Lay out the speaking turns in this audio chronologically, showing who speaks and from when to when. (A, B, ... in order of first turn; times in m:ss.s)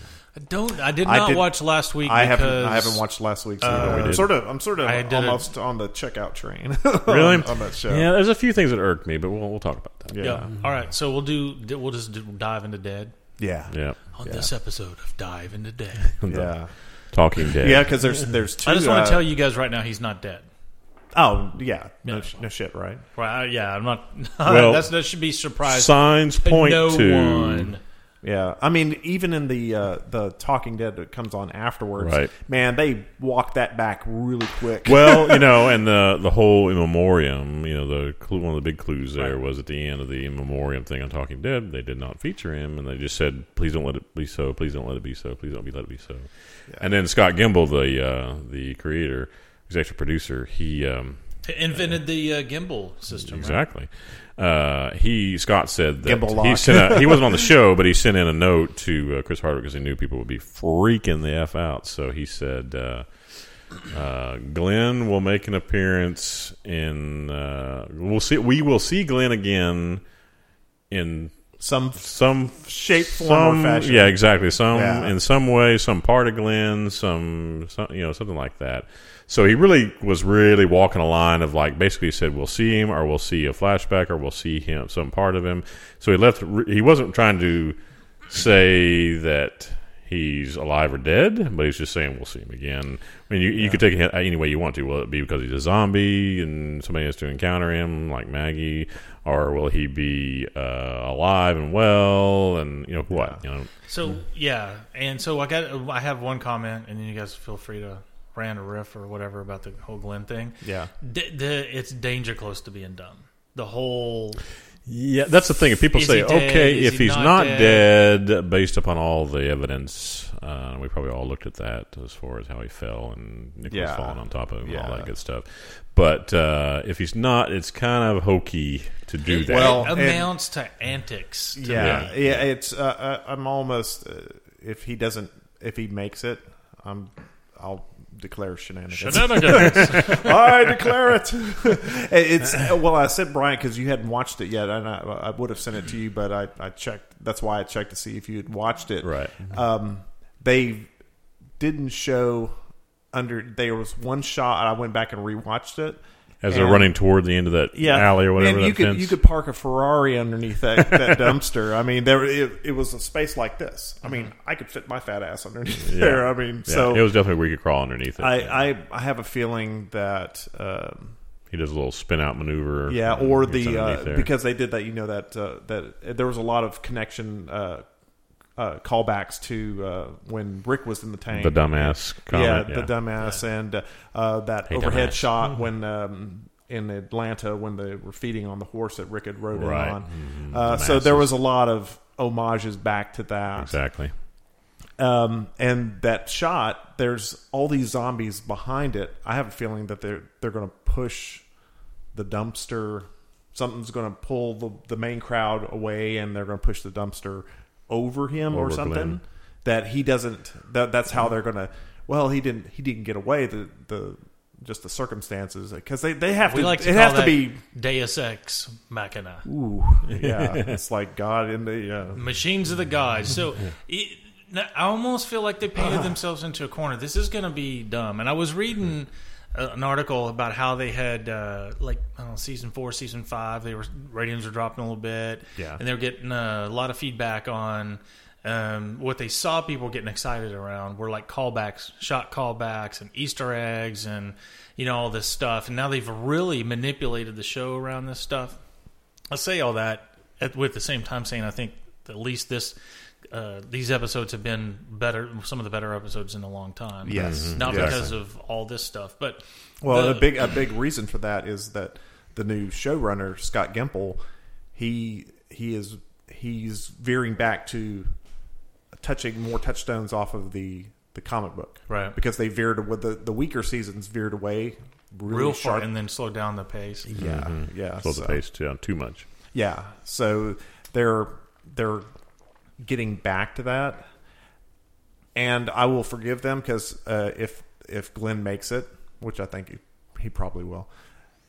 0:00.3-0:03.0 A
0:01.0-0:08.1 B
0:03.6-0:05.4 A
0:03.7-0:04.3 C
0:07.1-0:10.5 C
0:10.1-0:10.5 B
0:10.2-0:13.1 A
0:13.4-0:14.5 B
0:13.7-0:14.0 C
0:14.1-0:16.1 A
0:16.2-0:16.6 C
0:16.3-0:16.7 B
0:17.1-0:18.0 C
0:17.6-0:19.2 B
0:18.6-0:20.5 A
0:21.1-0:23.0 B
0:22.0-0:22.3 A
0:23.2-0:27.8 A
0:24.4-0:24.9 C
0:25.6-0:27.7 C
0:28.2-0:35.6 B
0:32.0-0:32.3 C
0:34.8-0:51.2 C
0:51.4-0:53.6 A
0:53.2-1:10.0 C
0:56.0-0:57.4 B
1:10.9-1:27.8 C
1:11.6-1:15.2 B
1:28.3-1:43.7 C
1:43.1-1:43.4 B
1:43.9-1:54.4 A
1:50.6-1:50.9 B
1:54.9-2:09.9 C
1:55.9-1:57.9 A
2:03.7-2:05.1 B
2:09.3-2:12.1 A
2:09.4-2:10.3 B
2:11.6-2:30.9 B
2:11.7-2:12.5 C
2:18.9-2:20.3 A
2:19.4-2:20.2 C
2:29.0-2:29.6 C
2:31.6-2:32.6 B
2:33.1-2:36.9 B
2:36.4-2:39.2 C
2:37.7-2:47.1 B
2:45.8-2:48.7 C
2:48.2-2:51.2 B
2:51.5-2:54.3 C
2:52.9-2:57.9 B
2:58.6-3:13.8 B
3:01.3-3:02.9 C
3:04.7-3:05.5 C
3:09.5-3:11.3 C
3:13.6-3:14.1 C
3:15.0-3:21.5 B
3:22.1-3:37.6 B
3:28.5-3:29.2 C
3:36.4-3:39.5 A
3:39.5-3:42.3 B
3:40.2-3:40.8 C
3:42.2-4:08.6 A
3:45.8-3:46.1 B
4:09.3-4:20.4 A
4:17.0-4:18.2 B
4:17.1-4:18.1 C
4:19.8-4:24.2 B
4:24.8-4:28.1 B
4:29.0-4:35.9 B
4:31.9-4:32.2 A
4:35.3-4:37.1 A
4:37.1-4:38.4 B
4:37.2-4:39.3 C
4:39.5-4:42.1 B
4:42.8-4:44.1 B
4:45.4-4:50.9 B